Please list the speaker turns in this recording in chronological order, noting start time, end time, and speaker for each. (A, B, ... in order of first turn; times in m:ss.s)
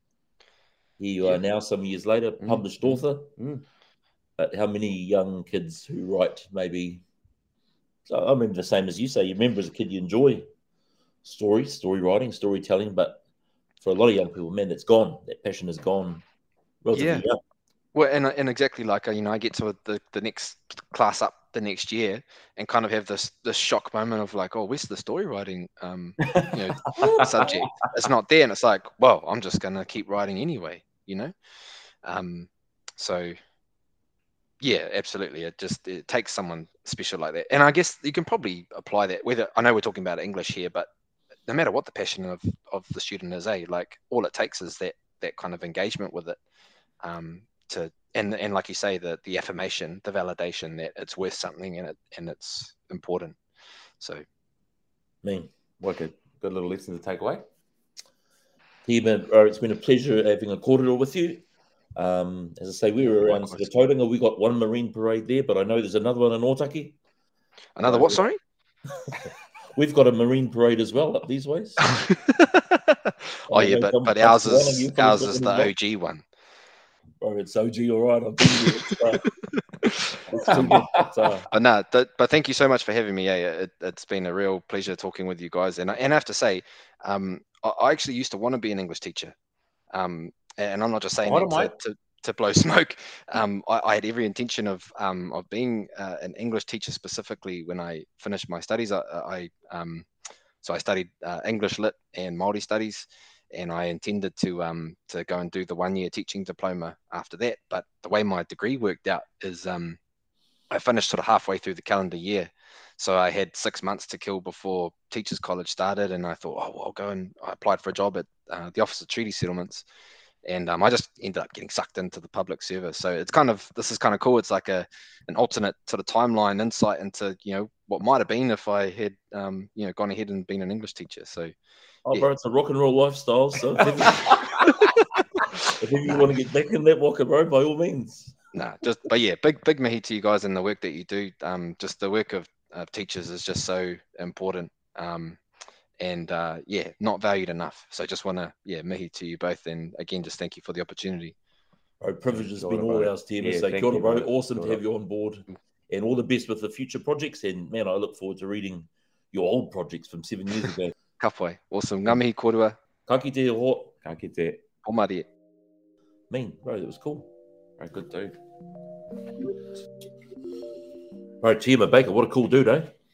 0:01.0-0:03.3 A
0:02.4-0:03.6 B
0:04.4-0:07.0 A
0:08.1-0:10.5 A
0:11.2-0:13.2 A
0:13.8-0:16.2 A
0:16.8-0:17.4 A
0:16.9-0:17.2 C
0:18.0-0:31.3 C
0:26.2-0:27.7 B
0:32.0-0:33.4 C
0:34.6-0:40.9 C
0:41.5-0:46.4 C
0:47.0-0:53.4 C
0:55.2-0:55.5 A
0:55.8-0:57.4 B
0:58.8-1:01.4 A
1:02.0-1:07.0 A
1:03.2-1:03.7 C
1:07.8-1:08.4 C
1:07.8-1:08.2 A
1:09.1-1:11.9 A
1:11.9-1:16.2 C
1:13.5-1:15.7 A
1:17.2-1:19.3 A
1:19.8-1:29.3 C
1:20.3-1:21.5 A
1:29.9-1:40.1 C
1:31.2-1:31.7 B
1:40.6-1:50.0 C
1:50.7-1:59.8 C
2:00.4-2:11.5 C
2:12.1-2:14.7 A
2:15.7-2:18.4 A
2:18.5-2:25.4 C
2:26.0-2:31.4 C
2:32.0-2:40.9 A
2:32.3-2:34.8 B
2:41.2-2:42.8 C
2:43.1-2:43.9 A
2:44.0-2:44.6 B
2:44.8-2:45.3 C
2:46.3-2:47.3 A
2:47.8-2:48.4 B
2:51.4-2:52.9 A